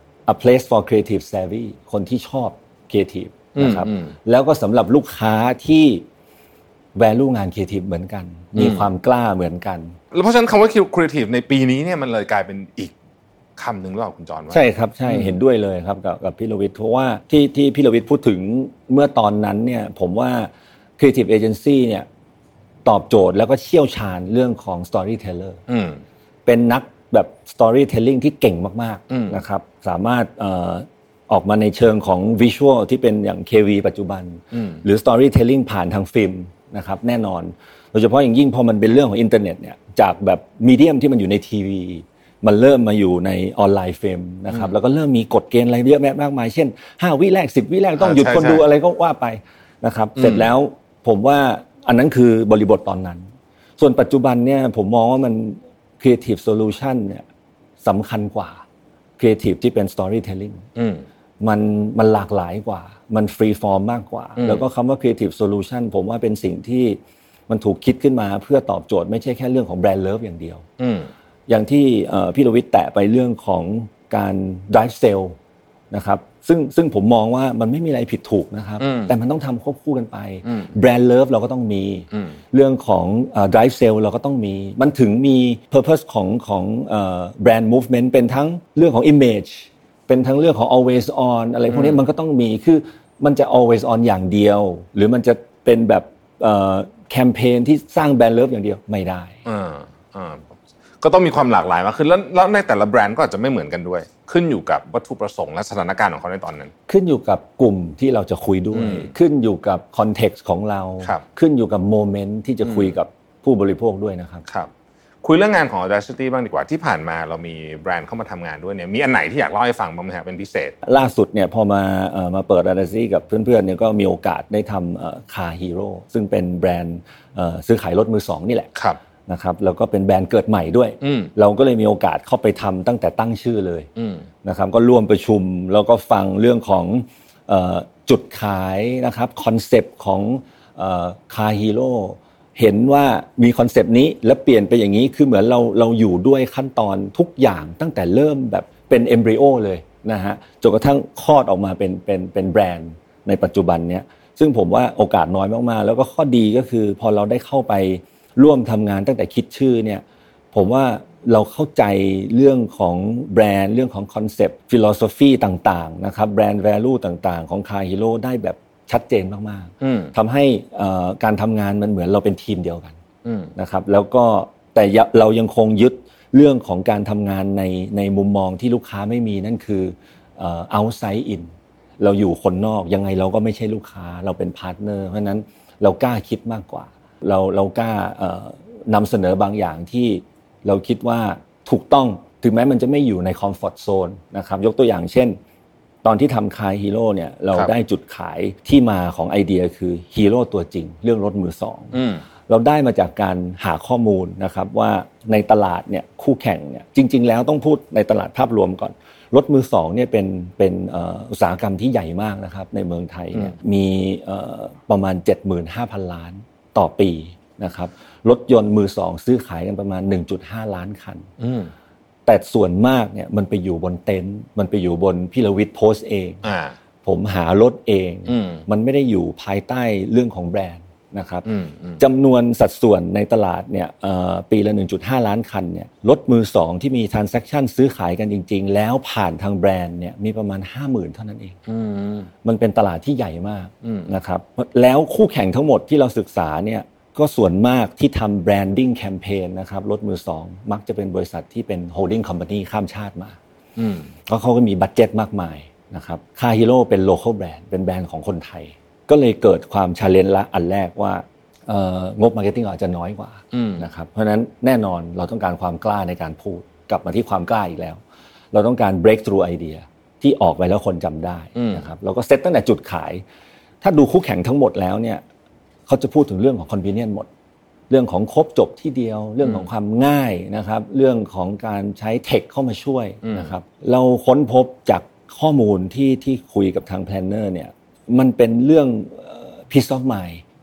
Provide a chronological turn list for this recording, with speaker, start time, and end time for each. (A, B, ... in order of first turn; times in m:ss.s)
0:00.3-0:06.0 A
0:03.6-0:04.1 B
0:07.0-0:10.0 A
0:08.6-0:08.9 B
0:10.1-0:12.9 B
0:13.6-0:15.3 B
0:14.5-0:22.1 A
0:22.8-0:25.6 A
0:25.7-0:26.0 B
0:26.4-0:57.2 A
0:29.1-0:29.4 B
0:34.5-0:34.8 B
0:48.0-0:48.6 B
0:50.2-0:50.5 B
0:57.8-0:58.6 A
0:59.2-1:00.7 A
1:00.8-1:01.0 B
1:01.4-1:10.6 A
1:04.4-1:04.6 B
1:10.8-1:11.1 B
1:11.5-1:15.4 A
1:15.9-1:39.4 A
1:18.8-1:19.1 B
1:20.5-1:20.7 B
1:31.7-1:32.0 B
1:39.4-1:46.7 B
1:46.9-1:54.4 A
1:48.7-1:49.1 B
1:52.6-1:52.9 B
1:55.2-2:00.7 B
2:00.8-2:08.7 A
2:09.3-2:13.9 A
2:11.0-2:11.3 B
2:14.0-2:14.2 B
2:14.4-2:53.0 A
2:49.8-2:50.1 B
2:53.2-2:53.5 B
2:53.5-3:15.4 A
3:16.0-3:41.3 A
3:21.9-3:22.2 B
3:41.4-3:41.7 B
3:42.2-3:46.4 A
3:46.4-3:46.8 B
3:47.0-3:51.4 A
3:48.3-3:48.6 B
3:51.4-3:52.0 B
3:52.0-4:01.6 A
4:01.7-4:02.3 B
4:02.4-4:13.4 A
4:03.8-4:04.1 B
4:13.8-4:14.1 B
4:14.3-4:28.0 A
4:23.5-4:23.8 B
4:28.5-4:33.2 A
4:31.6-4:31.9 B
4:33.8-4:35.2 A
4:35.9-4:37.3 A
4:37.9-4:50.4 A
4:39.4-4:39.7 B
4:43.2-4:43.5 B